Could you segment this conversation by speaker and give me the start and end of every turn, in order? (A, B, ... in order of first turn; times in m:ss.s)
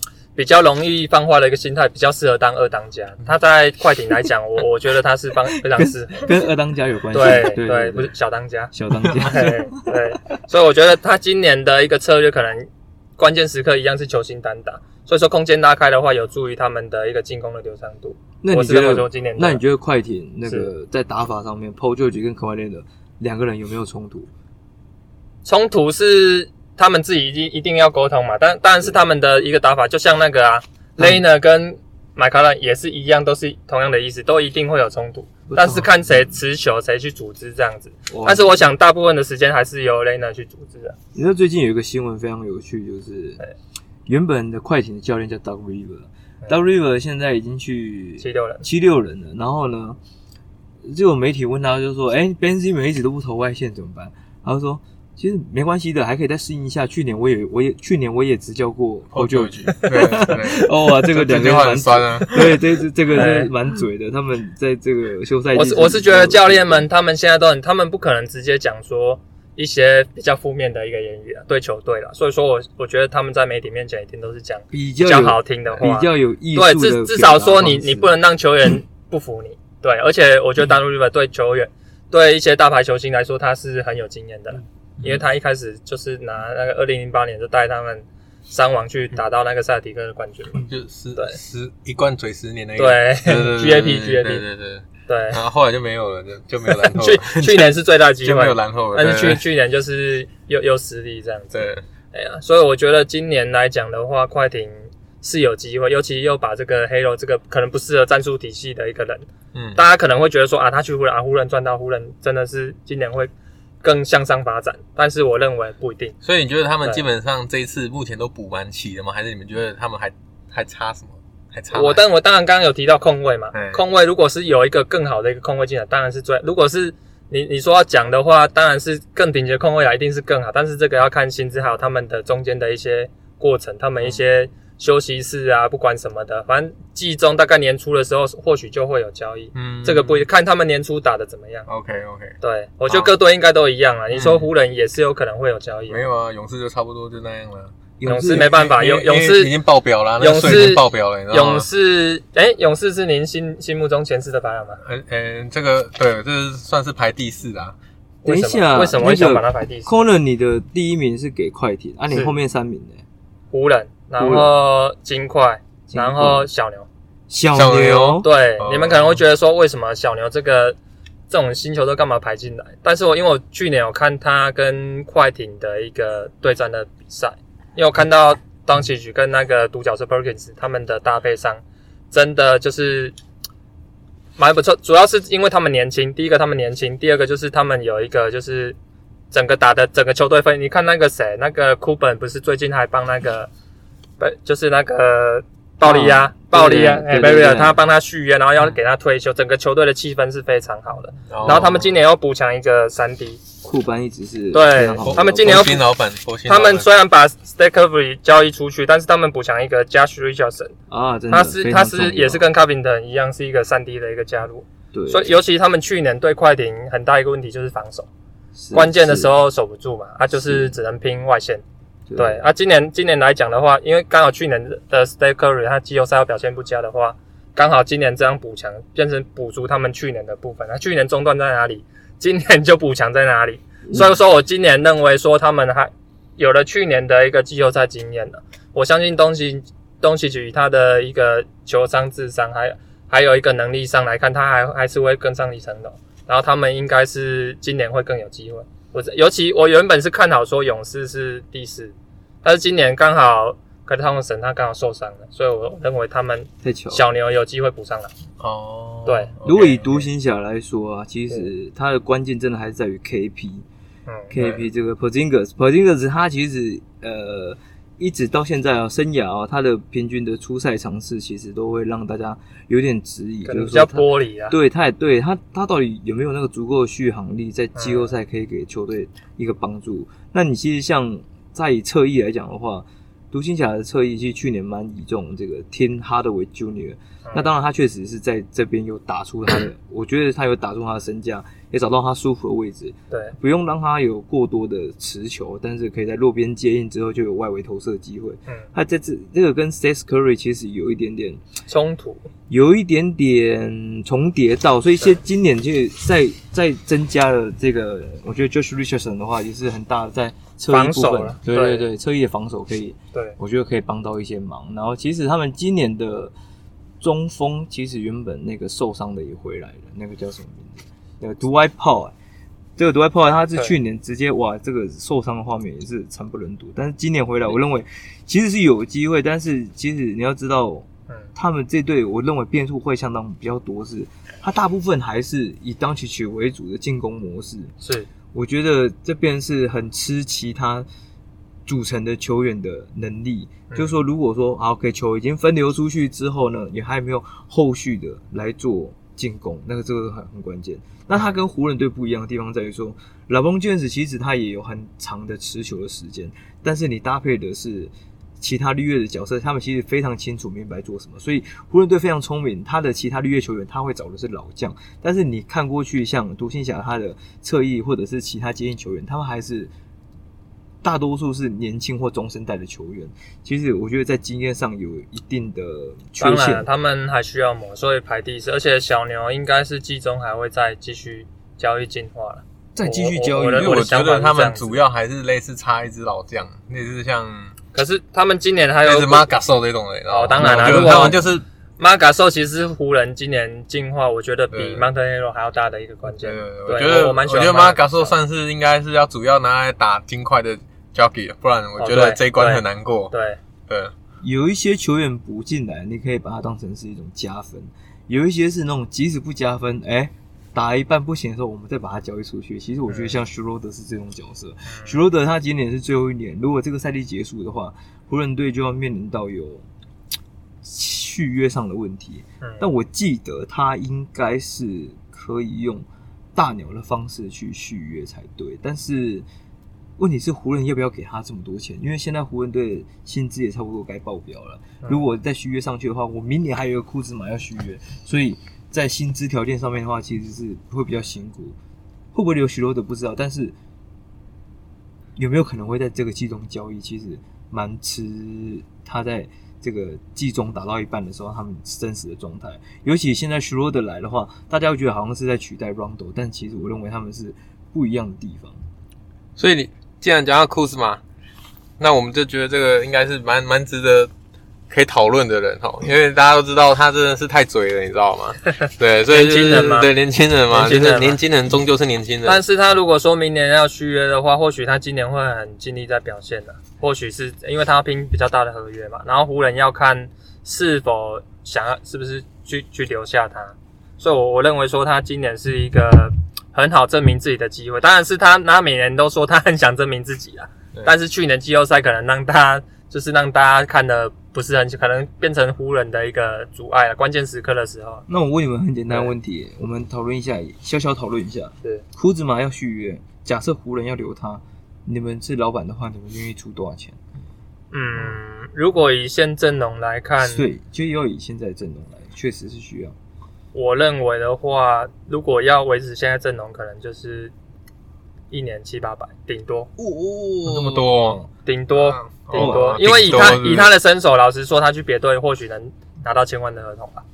0:00.4-0:06.3 A
0:05.8-0:08.1 B
0:07.1-0:19.6 A
0:08.7-0:09.9 B
0:18.4-0:24.3 B
0:25.4-0:41.0 A
0:35.5-0:36.2 B
0:38.1-0:38.6 B
0:41.2-0:43.4 B
0:44.1-0:50.0 B
0:48.2-0:48.6 A
0:50.9-1:06.9 B
0:59.1-1:02.7 C
1:03.1-1:03.5 A
1:05.5-1:30.6 A
1:14.7-1:18.1 B
1:30.6-1:39.4 C
1:32.8-1:34.4 A
1:35.1-1:35.4 A
1:36.7-1:53.3 A
1:41.5-1:41.8 C
1:49.5-1:49.8 C
1:53.8-1:56.1 A
1:56.2-2:02.0 C
2:01.7-2:21.7 A
2:03.5-2:03.8 C
2:19.5-2:20.3 C
2:21.7-2:22.4 C
2:22.4-2:26.0 A
2:24.1-2:24.5 C
2:25.9-2:27.7 C
2:28.0-2:28.5 B
2:28.1-2:29.5 A
2:28.3-2:31.7 C
2:30.2-2:34.8 A
2:34.8-2:37.8 C
2:38.2-2:40.0 A
2:38.2-2:43.0 B
2:42.1-2:42.4 A
2:43.5-2:46.9 A
2:44.2-2:44.6 B
2:45.9-2:46.5 B
2:47.3-2:48.3 B
2:47.6-2:49.2 C
2:48.2-2:50.8 A
2:51.3-3:03.2 A
3:04.4-3:08.8 A
3:09.3-3:13.5 A
3:14.2-3:23.4 A
3:15.8-3:17.8 B
3:21.3-3:21.9 C
3:21.4-3:21.7 B
3:23.6-3:25.8 B
3:24.5-3:25.8 A
3:25.0-3:26.9 C
3:26.5-3:30.7 A
3:30.9-3:32.4 B
3:31.3-3:38.1 A
3:34.9-3:35.4 B
3:38.6-3:39.3 B
3:38.7-3:41.6 A
3:40.3-3:40.7 B
3:42.1-3:42.5 B
3:42.2-4:18.1 A
4:16.6-4:17.0 B
4:18.4-4:19.7 C
4:19.1-4:20.0 A
4:19.4-4:23.7 B
4:24.3-5:01.4 B
4:24.4-4:24.6 C
4:33.5-4:34.6 A
4:37.8-4:38.1 A
5:01.7-5:02.3 A
5:02.5-5:16.3 B
5:10.7-5:11.9 A
5:17.0-5:22.1 B
5:22.8-5:37.7 B
5:37.8-5:38.1 A
5:38.3-5:40.9 B
5:41.7-6:09.7 B
6:10.8-6:16.7 B
6:16.2-6:24.8 A
6:22.8-6:23.9 B
6:23.6-6:27.5 C
6:27.7-6:29.3 A
6:28.8-6:31.4 C
6:30.1-6:31.2 A
6:30.4-6:31.2 B
6:31.8-6:38.1 A
6:34.5-6:34.8 C
6:36.0-6:43.1 C
6:41.8-6:43.4 A
6:43.7-6:43.9 C
6:44.2-6:59.7 B
6:52.9-6:53.2 A
6:54.7-6:55.0 A
7:00.6-7:09.3 B
7:02.4-7:02.7 A
7:10.0-7:21.6 B
7:22.1-7:23.6 B
7:25.2-7:38.6 B
7:39.4-7:41.0 C
7:41.8-7:44.1 C
7:44.7-7:52.4 C
7:49.1-7:49.9 A
7:50.5-7:51.2 A
7:52.2-8:18.0 A
8:18.1-8:27.0 B
8:27.7-8:30.5 A
8:30.2-8:33.0 B
8:33.5-8:37.3 A
8:38.3-8:39.7 A
8:39.8-8:41.3 B
8:40.1-8:43.7 C
8:41.4-8:47.0 A
8:42.3-8:43.4 B